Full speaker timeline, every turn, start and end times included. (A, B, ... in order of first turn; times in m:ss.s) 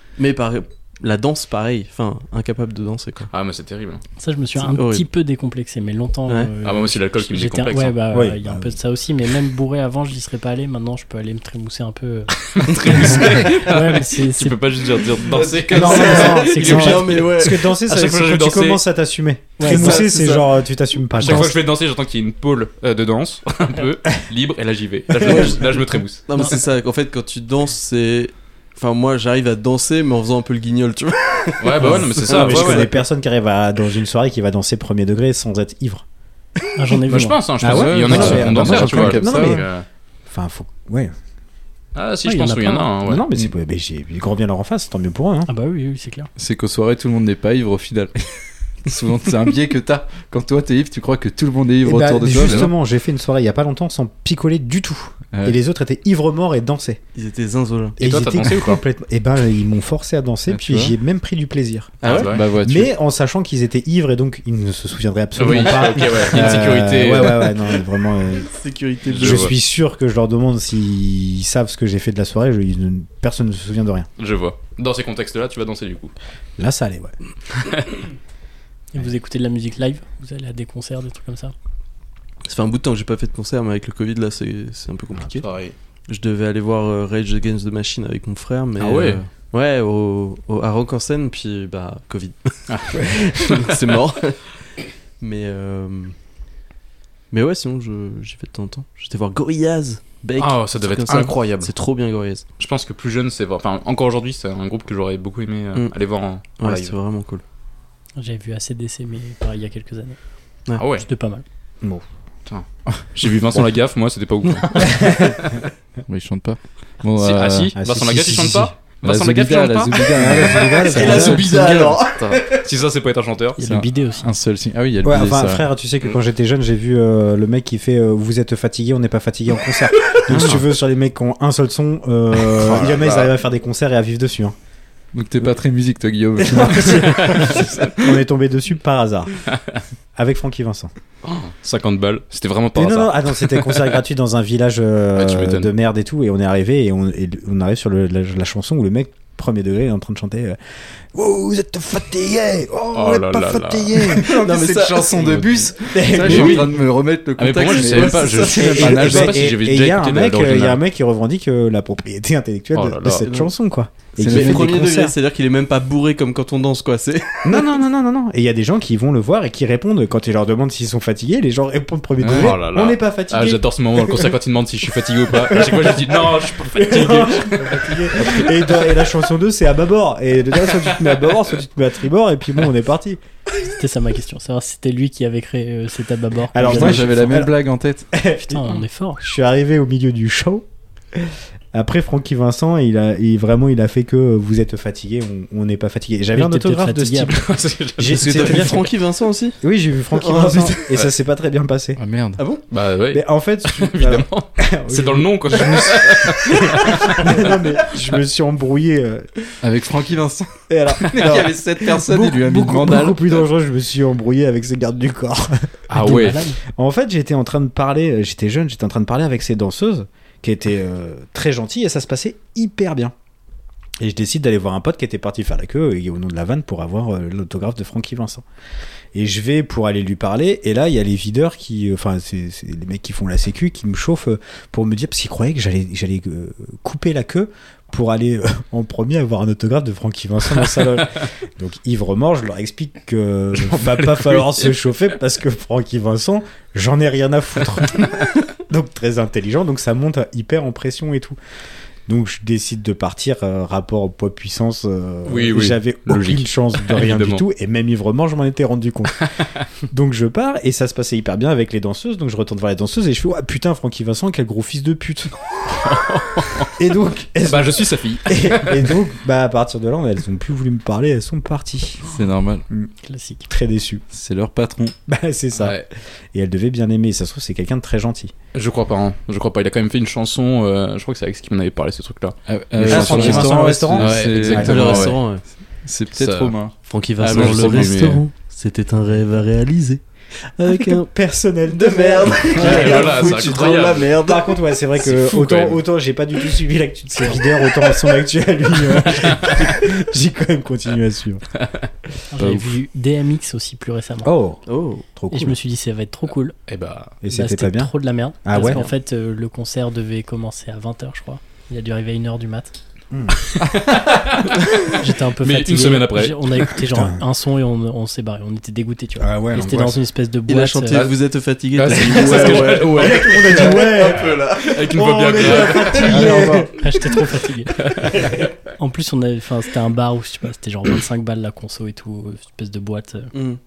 0:00.2-0:03.3 A
0:03.3-0:04.0 B
0:04.2-0:12.3 C
0:04.6-0:05.1 A
0:06.6-0:08.0 B
0:08.1-0:08.8 D
0:12.4-0:18.8 B
0:13.2-0:14.6 C
0:15.4-0:16.0 E
0:15.7-0:21.6 D
0:15.8-0:17.8 A
0:15.8-0:17.0 C
0:19.6-0:20.0 C
0:19.6-0:20.5 A
0:21.2-0:26.6 B
0:25.2-0:25.6 D
0:25.2-0:32.9 A
0:31.6-0:32.9 B
0:31.8-0:36.0 D
0:36.8-0:37.4 C
0:37.1-0:39.9 B
0:37.6-0:39.7 D
0:37.6-0:39.5 E
0:40.3-0:41.1 D
0:42.0-0:43.2 B
0:42.2-0:42.9 C
0:43.1-0:45.5 D
0:45.5-0:46.3 C
0:46.4-0:48.2 E
0:48.8-0:52.7 E
0:51.8-0:57.0 D
0:57.2-0:58.0 A
0:58.0-1:08.5 D
0:58.0-0:58.8 B
1:00.5-1:00.9 E
1:02.0-1:02.3 A
1:02.0-1:02.4 B
1:02.3-1:02.9 E
1:05.4-1:07.6 B
1:08.4-1:09.5 A
1:09.1-1:09.5 B
1:09.2-1:14.1 D
1:14.2-1:16.1 B
1:16.6-1:17.2 D
1:17.6-1:18.0 B
1:18.9-1:21.5 C
1:22.5-1:25.5 A
1:25.4-1:25.7 B
1:26.1-1:34.6 A
1:28.8-1:29.2 B
1:32.7-1:34.0 B
1:35.2-1:36.2 A
1:37.3-1:42.4 A
1:40.4-1:41.7 B
1:42.6-1:47.0 B
1:46.6-1:47.4 A
1:48.2-1:50.2 C
1:50.8-1:51.1 B
1:51.0-1:51.4 C
1:52.5-1:55.6 B
1:54.8-1:55.4 D
1:56.1-1:57.7 E
1:57.2-2:01.2 B
1:57.8-1:58.7 D
1:59.0-2:02.0 E
2:00.1-2:01.5 D
2:00.8-2:02.6 A
2:02.0-2:03.6 B
2:03.6-2:04.3 C
2:03.6-2:05.7 E
2:05.0-2:14.6 D
2:10.3-2:10.6 E
2:12.5-2:13.3 B
2:15.1-2:17.7 E
2:16.4-2:19.4 D
2:20.2-2:20.9 D
2:21.2-2:23.9 B
2:22.8-2:30.6 D
2:25.2-2:25.7 B
2:31.1-2:34.3 D
2:32.9-2:34.2 B
2:34.1-2:36.7 A
2:34.2-2:39.4 E
2:35.9-2:36.7 D
2:36.2-2:36.6 B
2:37.4-2:40.8 B
2:37.6-2:39.2 A
2:38.6-2:45.2 D
2:42.7-2:43.2 B
2:43.2-2:43.5 A
2:44.2-2:47.6 A
2:44.2-2:44.9 E
2:47.4-2:54.3 D
2:52.2-2:58.8 B
2:55.3-3:03.2 D
3:03.6-3:07.2 C
3:06.5-3:07.6 D
3:06.6-3:08.1 E
3:08.1-3:08.7 D
3:08.4-3:09.2 C
3:09.2-3:18.9 D
3:16.3-3:17.3 C
3:17.3-3:18.7 B
3:18.1-3:19.6 A
3:19.6-3:22.0 D
3:20.1-3:20.9 A
3:22.0-3:22.4 E
3:22.7-3:27.3 B
3:23.1-3:29.3 D
3:29.6-3:33.3 E
3:30.7-3:35.7 D
3:35.9-3:36.4 B
3:36.0-3:36.6 C
3:36.7-3:43.1 D
3:44.0-3:48.4 D
3:49.1-4:11.4 D
4:03.6-4:04.9 B
4:12.1-4:19.3 D
4:15.2-4:17.4 B
4:19.9-4:25.3 D
4:25.7-4:26.7 B
4:26.8-4:32.0 D
4:27.4-4:29.0 B
4:32.0-4:32.6 E
4:33.0-4:33.5 C
4:33.5-4:34.0 D
4:34.1-4:34.9 E
4:35.1-4:38.3 D
4:35.5-4:35.9 B
4:38.5-4:45.2 B
4:42.5-4:45.2 E
4:42.8-4:45.1 D
4:44.5-4:45.4 A
4:45.8-4:47.9 E
4:46.2-4:46.6 B
4:46.9-4:50.0 A
4:47.2-4:48.2 B
4:50.6-4:51.1 A
4:50.6-5:01.4 D
4:51.7-4:54.6 A
4:52.4-4:54.1 B
4:55.0-4:55.8 B
4:59.2-4:59.5 B
5:02.3-5:04.3 C
5:02.4-5:02.8 E
5:04.2-5:05.6 D
5:04.7-5:05.1 A
5:05.3-5:06.6 C
5:06.7-5:07.2 B
5:07.2-5:08.8 D
5:07.3-5:12.7 C
5:13.1-5:13.5 D
5:13.6-5:16.6 B
5:14.9-5:21.0 C
5:16.9-5:17.2 D
5:19.2-5:20.0 D
5:20.5-5:26.6 A
5:20.9-5:21.2 B
5:21.7-5:26.4 B
5:22.1-5:27.2 D
5:26.0-5:27.9 C
5:27.8-5:28.3 B
5:28.8-5:33.3 C
5:33.3-5:33.6 A